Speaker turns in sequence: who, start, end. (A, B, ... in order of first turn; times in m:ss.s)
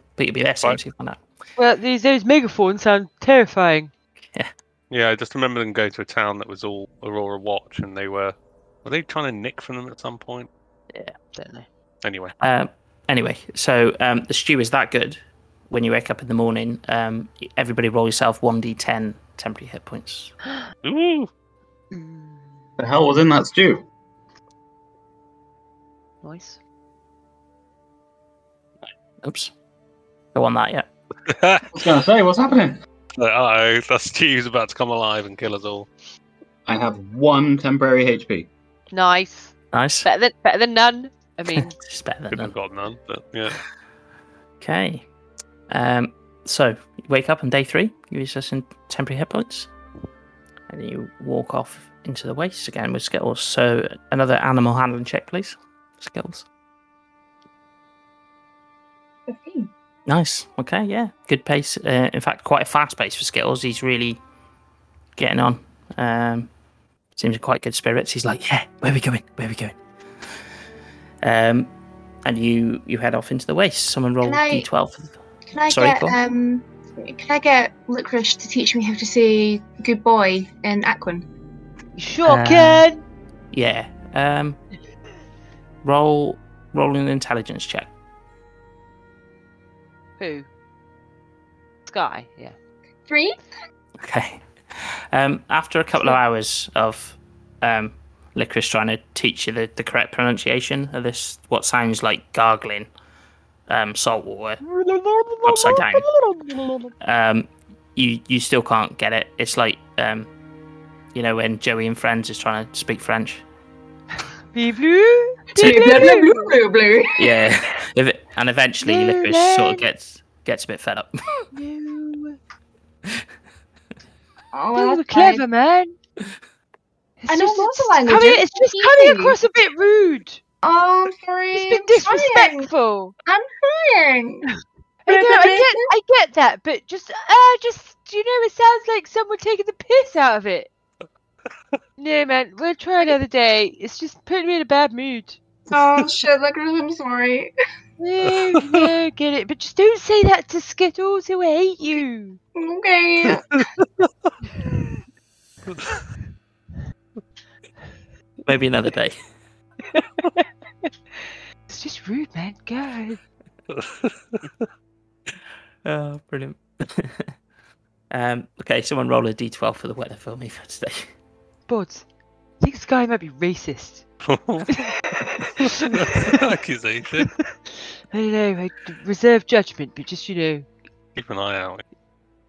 0:00.2-0:01.2 A
0:01.6-0:03.9 B
0:04.9-0:10.5 C
0:11.3-0:11.7 B
0:12.0-0:12.4 C
0:12.4-0:20.3 A
0:20.8-0:21.3 C
0:21.9-0:22.6 B
0:22.8-0:23.9 D
0:26.2-0:26.6 B
0:29.2-0:29.5 A
0:30.4-0:30.9 A
0:31.3-0:31.7 C
0:31.7-0:32.8 D
0:33.2-0:35.9 C
0:36.7-0:38.5 D
0:38.9-0:41.8 B
0:39.7-0:40.1 A
0:41.5-0:42.5 A
0:42.3-0:43.6 C
0:44.6-0:45.0 A
0:45.7-0:49.7 A
0:50.7-0:56.5 A
0:59.3-0:59.7 E
1:00.1-1:04.2 A
1:05.2-1:06.5 A
1:07.2-1:09.8 A
1:11.2-1:11.7 A
1:12.3-1:15.2 A
1:14.2-1:14.7 E
1:15.5-1:21.3 E
1:15.7-1:16.2 A
1:22.0-1:23.0 B
1:22.2-1:22.9 A
1:23.5-1:24.6 A
1:25.8-1:27.9 A
1:30.2-1:30.5 B
1:31.9-1:32.6 B
1:33.1-1:33.4 E
1:34.0-1:42.9 A
1:43.7-1:44.6 A
1:44.6-1:46.9 B
1:45.4-1:46.1 A
1:47.0-1:50.3 A
1:51.1-1:53.4 A
1:54.5-1:56.6 B
1:55.6-1:57.4 E
1:55.7-1:56.1 A
1:57.2-2:01.2 A
1:58.8-1:59.8 B
2:01.5-2:02.4 B
2:04.5-2:05.4 E
2:04.8-2:06.0 B
2:07.2-2:10.4 B
2:07.3-2:09.4 E
2:10.6-2:12.7 E
2:11.5-2:13.1 B
2:13.3-2:14.5 E
2:15.1-2:20.7 B
2:15.1-2:15.9 E
2:22.0-2:25.4 B
2:25.7-2:27.5 E
2:28.0-2:32.4 B
2:32.6-2:33.6 E
2:33.5-2:34.1 C
2:38.5-2:39.2 A
2:39.9-2:40.9 B
2:41.7-2:43.2 B
2:43.7-2:44.5 C
2:45.8-2:47.3 A
2:48.1-2:51.1 A
2:51.7-2:52.1 B
2:52.6-2:54.0 B
2:54.2-2:54.8 C
2:54.7-2:56.4 B
2:55.8-2:57.3 C
2:57.2-3:00.7 B
3:01.1-3:01.8 C